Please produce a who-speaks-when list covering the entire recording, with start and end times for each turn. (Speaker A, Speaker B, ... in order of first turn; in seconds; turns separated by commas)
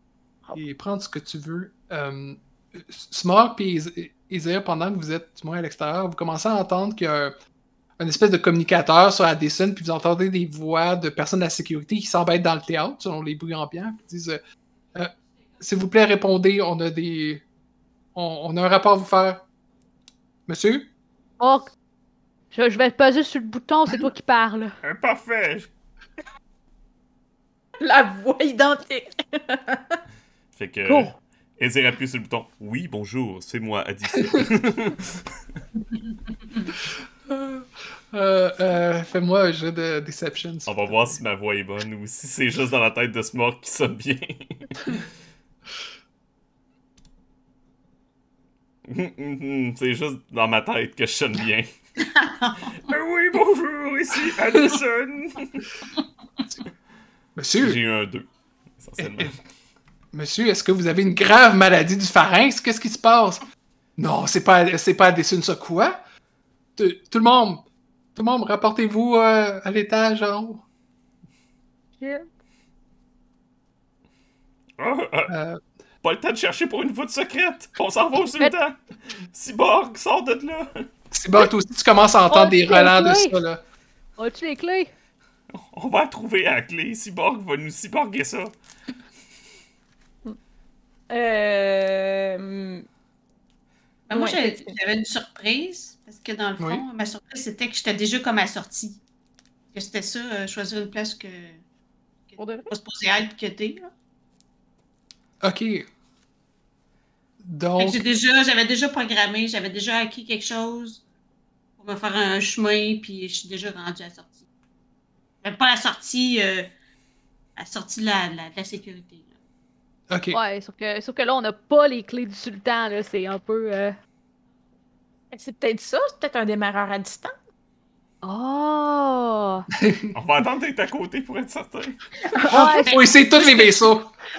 Speaker A: 0.5-7.3, Speaker A: 8.0-14.4, Speaker A: 14.9-17.4, Speaker A: 18.1-19.4, Speaker A: 20.5-20.9, Speaker B: 21.4-21.7, Speaker B: 22.5-24.8, Speaker C: 24.8-25.7, Speaker D: 27.8-30.0, Speaker C: 30.6-35.4, Speaker B: 30.9-31.1, Speaker A: 37.3-41.1, Speaker C: 40.7-44.9, Speaker C: 48.9-51.8, Speaker E: 52.0-52.7, Speaker C: 52.9-55.7, Speaker A: 57.4-57.8, Speaker C: 57.6-59.4, Speaker A: 59.0-59.3, Speaker A: 60.1-63.4, Speaker A: 64.0-66.0, Speaker A: 66.8-70.7, Speaker D: 72.0-72.3, Speaker C: 74.8-75.3, Speaker A: 75.3-75.6, Speaker C: 76.0-80.9, Speaker A: 81.1-83.6, Speaker B: 82.3-83.4, Speaker B: 84.2-84.9, Speaker C: 85.5-88.5, Speaker D: 91.1-92.9, Speaker E: 94.1-99.0, Speaker D: 94.1-94.7, Speaker A: 96.6-96.8, Speaker E: 99.7-101.6, Speaker E: 102.3-103.9, Speaker D: 102.4-102.7, Speaker A: 105.4-105.9, Speaker A: 107.4-108.0, Speaker E: 107.8-111.0, Speaker E: 111.8-114.4, Speaker E: 115.4-116.7, Speaker E: 117.6-119.3, Speaker A: 120.1-120.4, Speaker B: 120.3-124.0, Speaker D: 125.3-127.3, Speaker B: 128.2-129.7, Speaker A: 129.8-130.1, Speaker C: 130.1-132.0, Speaker E: 132.2-133.7, Speaker B: 132.4-132.9, Speaker A: 132.5-134.1